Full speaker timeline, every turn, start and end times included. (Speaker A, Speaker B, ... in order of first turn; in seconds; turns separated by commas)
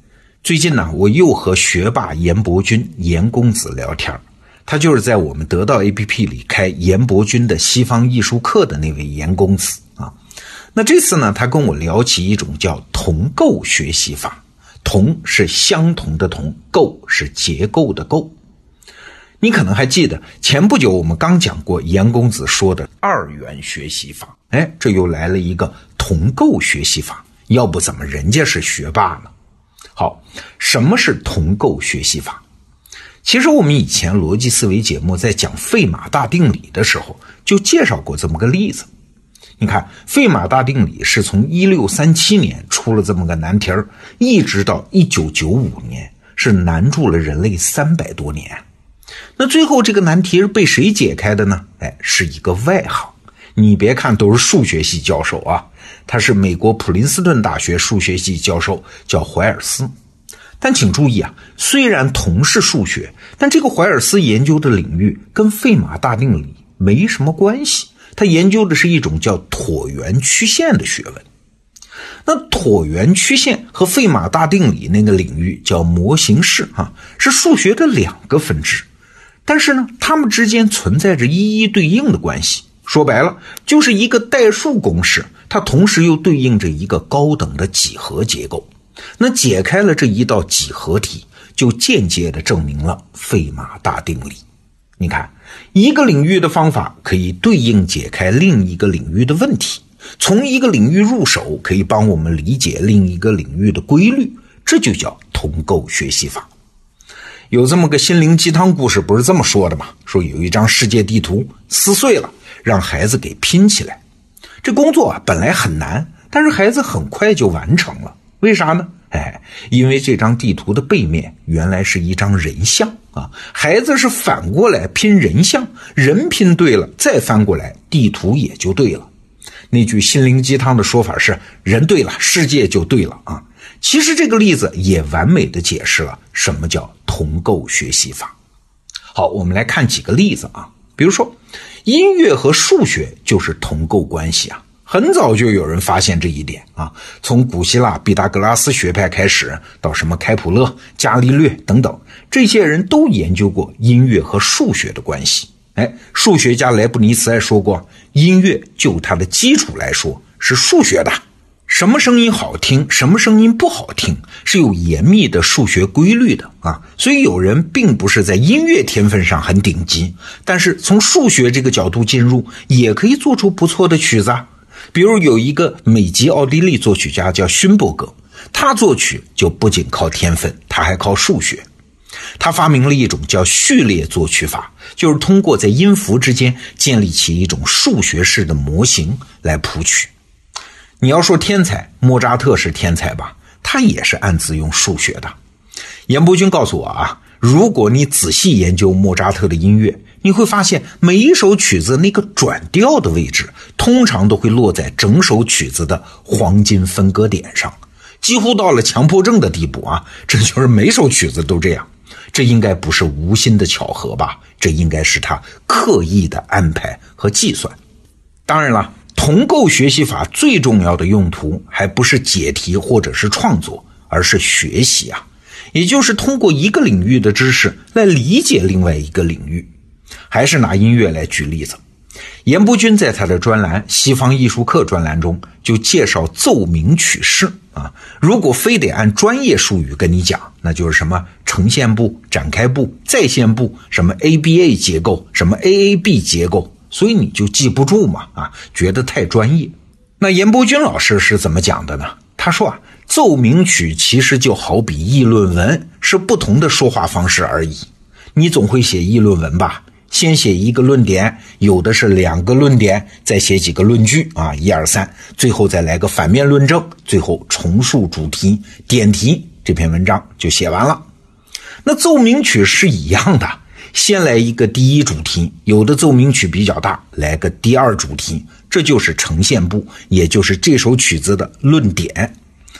Speaker A: 0.4-10.1, Speaker A: 10.8-18.3, Speaker A: 19.4-29.3, Speaker A: 29.9-32.4, Speaker A: 33.2-38.9, Speaker A: 39.6-48.6, Speaker A: 49.4-59.9, Speaker A: 60.6-71.2, Speaker A: 72.2-78.8, Speaker A: 79.5-94.4, Speaker A: 95.0-106.5, Speaker A: 107.5-114.0, Speaker A: 114.6-129.1, Speaker A: 129.7-138.3, Speaker A: 139.1-181.7, Speaker A: 182.4-190.1, Speaker A: 191.0-195.3, Speaker A: 196.1-217.8, Speaker A: 218.5-229.7, Speaker A: 230.3-231.8, Speaker A: 232.4-271.1, Speaker A: 271.8-282.3